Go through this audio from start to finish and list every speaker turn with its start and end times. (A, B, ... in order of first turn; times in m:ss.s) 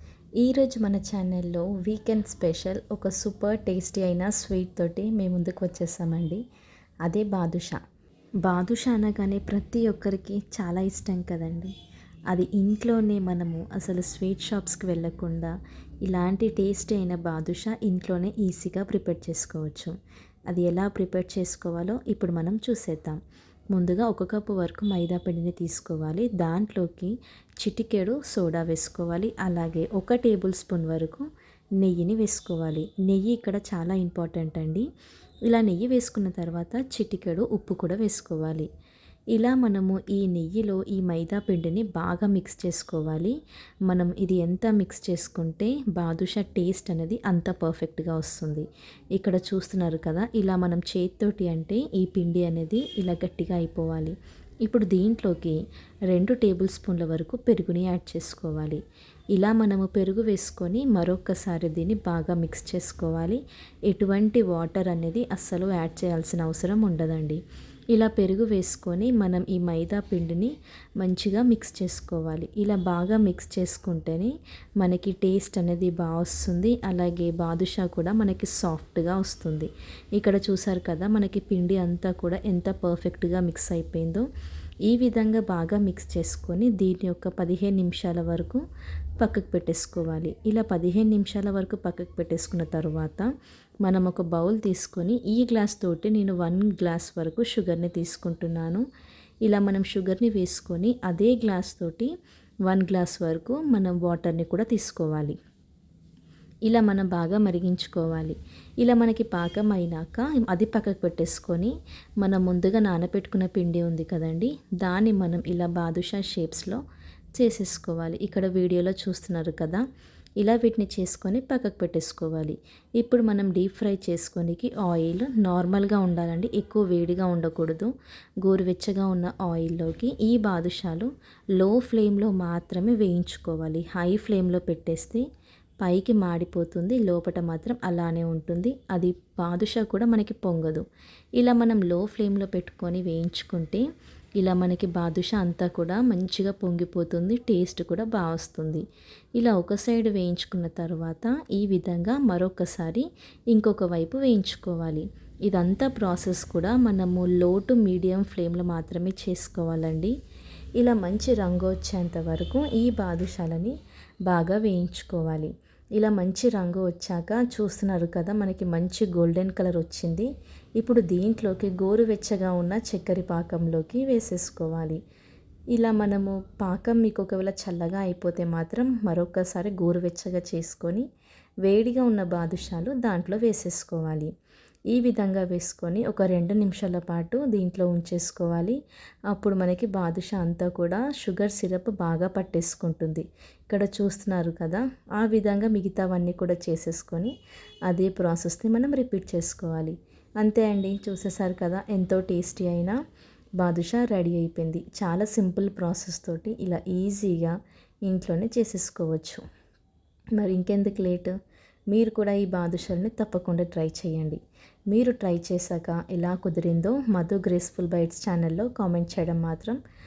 0:00.4-0:06.4 A
0:07.0-0:07.8 A
0:08.4-0:11.7 A
0:12.3-0:15.5 A
0:16.0-0:19.9 A
0:20.5-0:23.2 A
0:23.7-0:31.3 A
0:31.8-0:34.9 A
0:35.5-0:38.7 A
0:39.3-0:43.3 A
0:43.9-0:55.6 A
0:56.1-0:58.8 A
0:59.3-1:07.4 A
1:07.9-1:24.2 A
1:24.9-1:28.6 A
1:29.2-1:33.3 A
1:33.8-1:38.8 A
1:39.4-1:42.1 A
1:42.7-1:45.4 A
1:46.7-1:56.8 A
1:57.4-1:59.8 A
2:00.4-2:07.9 A
2:08.4-2:15.2 A
2:15.8-2:20.8 A
2:21.4-2:23.8 A
2:24.4-2:28.8 A
2:29.4-2:40.1 A
2:40.8-2:43.7 A
2:44.3-2:55.0 A
2:55.7-3:01.0 A
3:01.6-3:04.3 A
3:04.9-3:08.8 A
3:09.3-3:17.3 A
3:17.9-3:23.0 A
3:23.6-3:27.5 A
3:28.1-3:29.4 A
3:30.4-3:31.3 A
3:31.9-3:39.8 A